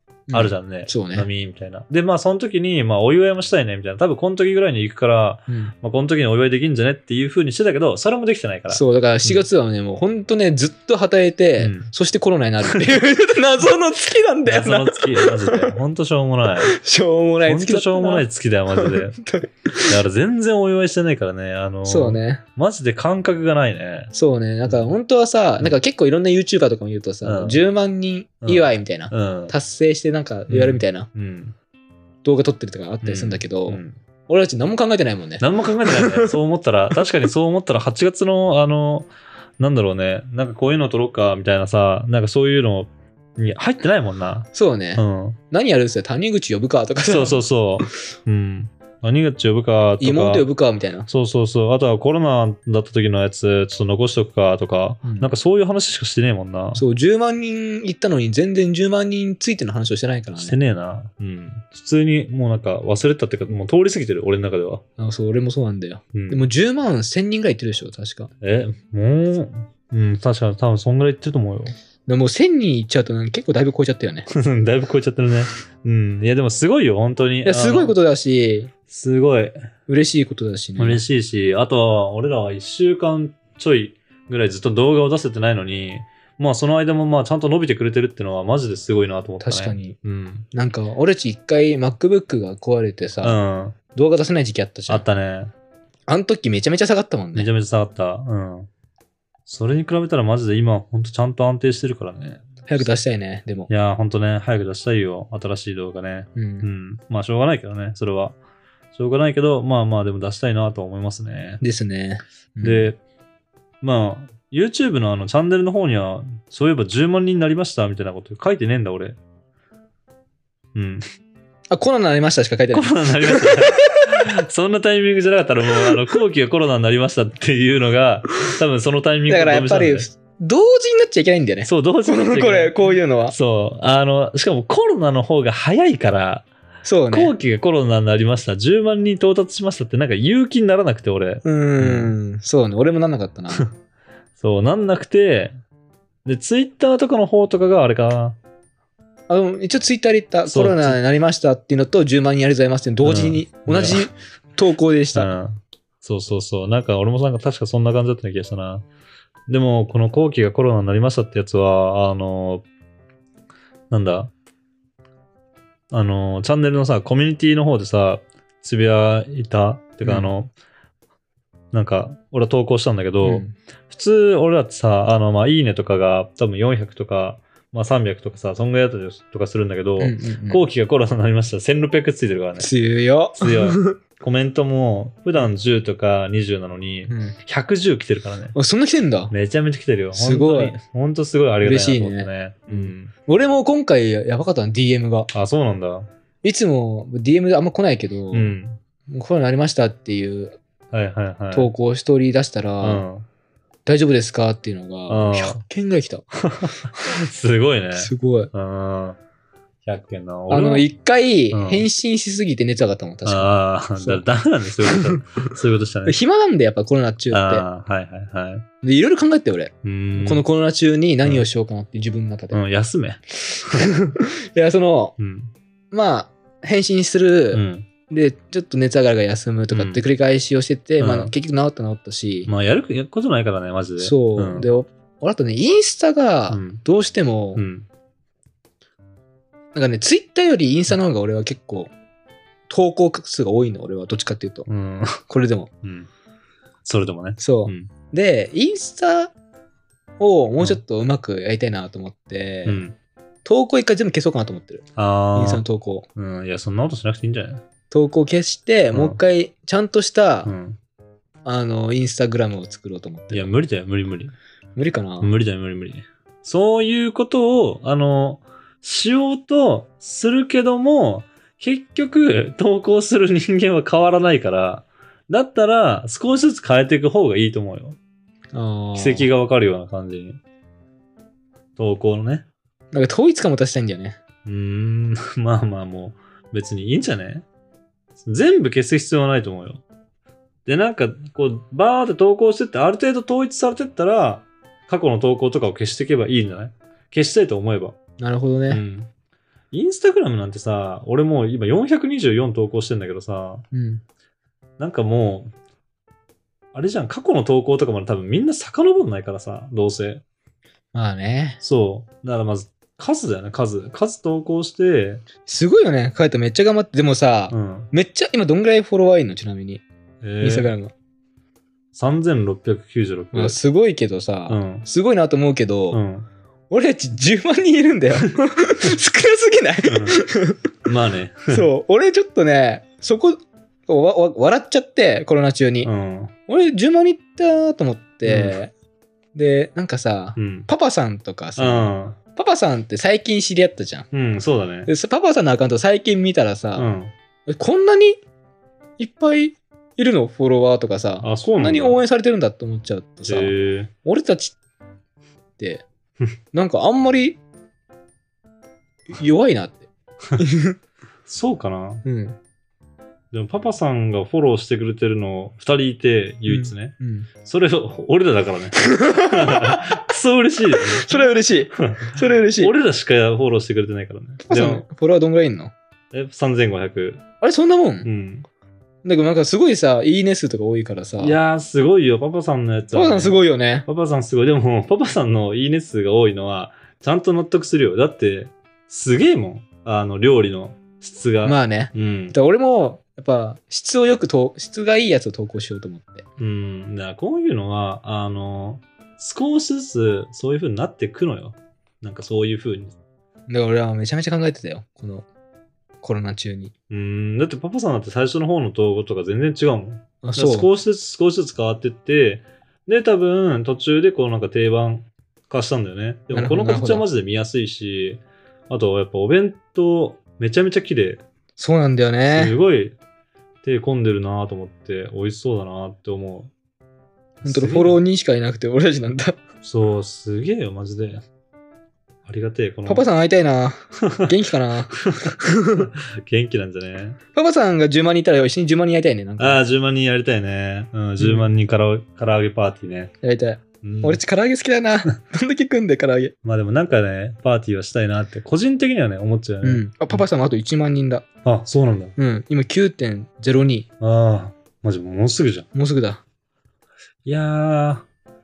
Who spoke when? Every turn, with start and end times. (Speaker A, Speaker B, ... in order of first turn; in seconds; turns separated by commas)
Speaker A: 0.3-1.3, Speaker B: 0.3-9.4, Speaker A: 8.7-15.8, Speaker B: 11.6-11.9, Speaker B: 14.4-16.7, Speaker A: 16.6-20.0, Speaker B: 17.4-19.2, Speaker B: 19.8-24.1, Speaker A: 21.9-22.4, Speaker A: 24.1-31.1, Speaker B: 27.2-27.6, Speaker B: 28.4-29.5, Speaker B: 30.5-31.6, Speaker A: 32.2-36.3, Speaker B: 33.0-34.0, Speaker B: 35.4-45.4, Speaker A: 44.5-47.4, Speaker B: 47.1-50.5, Speaker A: 50.0-51.1, Speaker B: 51.1-56.8, Speaker A: 55.0-55.3, Speaker A: 56.8-60.5, Speaker B: 60.4-64.8, Speaker A: 65.0-68.3, Speaker B: 66.1-66.5, Speaker B: 68.4-71.7, Speaker A: 72.1-74.3, Speaker B: 74.3-77.9, Speaker A: 77.4-78.7, Speaker B: 78.9-79.5, Speaker A: 79.9-81.0, Speaker B: 80.8-90.5, Speaker A: 89.4-90.0, Speaker A: 90.5-93.4, Speaker B: 93.2-93.8, Speaker A: 93.9-95.0, Speaker B: 94.9-95.5, Speaker A: 96.1-97.5, Speaker B: 97.3-98.7, Speaker B: 99.5-102.9, Speaker A: 102.7-103.7, Speaker B: 103.7-108.4, Speaker A: 106.3-106.7, Speaker B: 108.9-111.6, Speaker A: 111.6-112.9, Speaker B: 112.6-113.0, Speaker B: 113.8-119.2, Speaker B: 120.7-121.0, Speaker A: 121.7-124.0, Speaker B: 122.7-130.1, Speaker A: 129.3-133.3, Speaker B: 131.6-136.5, Speaker A: 136.8-137.3, Speaker B: 137.1-142.1, Speaker A: 141.4-143.6, Speaker B: 144.4-145.6, Speaker B: 146.2-148.4, Speaker A: 149.3-155.3, Speaker B: 150.5-151.0, Speaker B: 153.0-154.1, Speaker B: 155.1-158.8, Speaker B: 159.5-162.6, Speaker B: 163.9-164.3, Speaker B: 165.9-170.5, Speaker A: 170.0-170.3, Speaker B: 171.7-182.7, Speaker A: 173.2-173.5, Speaker A: 180.0-180.6, Speaker A: 182.6-184.0, Speaker B: 183.3-188.5, Speaker A: 187.1-187.3, Speaker A: 188.5-189.3, Speaker B: 189.3-193.1, Speaker A: 190.1-190.8, Speaker A: 191.6-195.3, Speaker B: 195.3-196.1, Speaker A: 196.4-198.5, Speaker B: 198.3-198.8, Speaker A: 199.1-200.6, Speaker B: 200.9-201.7, Speaker A: 201.5-203.0, Speaker B: 202.8-203.2, Speaker A: 203.8-206.2, Speaker B: 205.1-205.6, Speaker B: 206.5-209.2, Speaker A: 207.9-208.5, Speaker B: 209.8-210.9, Speaker A: 210.5-214.2, Speaker B: 211.5-211.8, Speaker B: 213.2-216.2, Speaker A: 214.8-215.2, Speaker A: 216.1-217.6, Speaker B: 217.3-218.7, Speaker A: 218.8-222.6, Speaker B: 219.8-220.4, Speaker B: 222.5-223.8, Speaker A: 223.6-225.1, Speaker B: 225.2-225.5, Speaker A: 225.9-232.5, Speaker B: 227.5-227.9, Speaker B: 229.7-230.0, Speaker B: 231.0-231.3, Speaker B: 232.5-234.7, Speaker A: 234.0-237.6, Speaker B: 236.5-236.8, Speaker B: 237.6-237.9, Speaker A: 239.7-241.9, Speaker A: 242.7-244.7, Speaker B: 244.7-245.2, Speaker A: 245.3-245.7, Speaker B: 245.8-246.1, Speaker B: 246.8-247.9, Speaker A: 247.4-249.3, Speaker A: 250.2-252.8, Speaker B: 252.7-252.9, Speaker A: 253.4-256.1, Speaker B: 254.9-255.6, Speaker B: 256.1-257.6, Speaker A: 257.9-260.5, Speaker B: 258.9-259.2, Speaker B: 260.4-260.8, Speaker A: 261.4-263.5, Speaker B: 263.3-264.3, Speaker A: 264.8-265.3, Speaker B: 265.2-278.0, Speaker A: 278.5-279.3, Speaker B: 278.9-280.4, Speaker B: 281.8-282.4, Speaker A: 282.9-284.2, Speaker B: 284.4-287.4, Speaker B: 288.2-289.8, Speaker B: 290.6-297.9, Speaker A: 298.2-298.8, Speaker B: 298.7-299.1, Speaker B: 299.7-303.6, Speaker A: 303.7-304.0, Speaker B: 304.8-305.5, Speaker B: 306.7-310.2, Speaker A: 310.9-311.6, Speaker B: 311.6-315.2, Speaker A: 315.4-319.8, Speaker B: 317.5-317.9, Speaker B: 320.2-320.7, Speaker A: 320.4-320.9, Speaker B: 321.9-323.6, Speaker A: 323.3-326.0, Speaker B: 324.5-324.8, Speaker B: 325.9-326.3, Speaker A: 326.7-330.6, Speaker B: 329.9-330.2, Speaker B: 330.8-331.6, Speaker A: 331.5-335.9, Speaker B: 335.8-336.3, Speaker A: 336.5-338.7, Speaker B: 338.2-338.6, Speaker A: 339.3-344.1, Speaker B: 340.4-340.7, Speaker B: 341.6-342.2, Speaker B: 344.1-344.9, Speaker A: 344.9-346.9, Speaker B: 346.8-347.1, Speaker A: 347.5-348.2, Speaker A: 349.0-353.5, Speaker B: 351.2-352.0, Speaker B: 353.2-353.9, Speaker A: 354.0-354.6, Speaker A: 355.6-355.8, Speaker A: 356.5-357.4, Speaker A: 359.1-359.9, Speaker A: 360.4-360.8, Speaker B: 361.2-362.0, Speaker A: 362.0-362.4, Speaker B: 363.3-374.9, Speaker A: 366.5-367.3, Speaker A: 368.8-369.9, Speaker A: 370.8-372.7, Speaker A: 374.4-375.7, Speaker B: 376.1-377.2, Speaker A: 377.4-378.1, Speaker B: 378.0-378.4, Speaker A: 379.0-381.4, Speaker B: 381.2-392.3, Speaker A: 382.9-383.9, Speaker A: 391.4-396.2, Speaker B: 396.4-402.9, Speaker A: 403.5-405.3, Speaker A: 406.0-406.7, Speaker B: 406.9-421.2, Speaker A: 410.2-410.7, Speaker A: 416.3-417.1, Speaker A: 421.6-422.6, Speaker B: 422.2-423.0, Speaker B: 423.6-426.5, Speaker B: 427.4-428.0, Speaker A: 427.4-429.4, Speaker B: 429.6-431.2, Speaker B: 432.2-433.1, Speaker A: 432.9-435.9, Speaker B: 435.0-437.2, Speaker A: 437.3-439.6, Speaker B: 439.4-443.1, Speaker A: 441.2-441.5, Speaker A: 443.2-446.3, Speaker B: 443.8-444.2, Speaker B: 446.4-450.2, Speaker A: 449.6-451.2, Speaker B: 451.4-452.1, Speaker A: 452.2-453.9, Speaker B: 454.0-455.7, Speaker A: 455.7-456.2, Speaker B: 457.2-458.1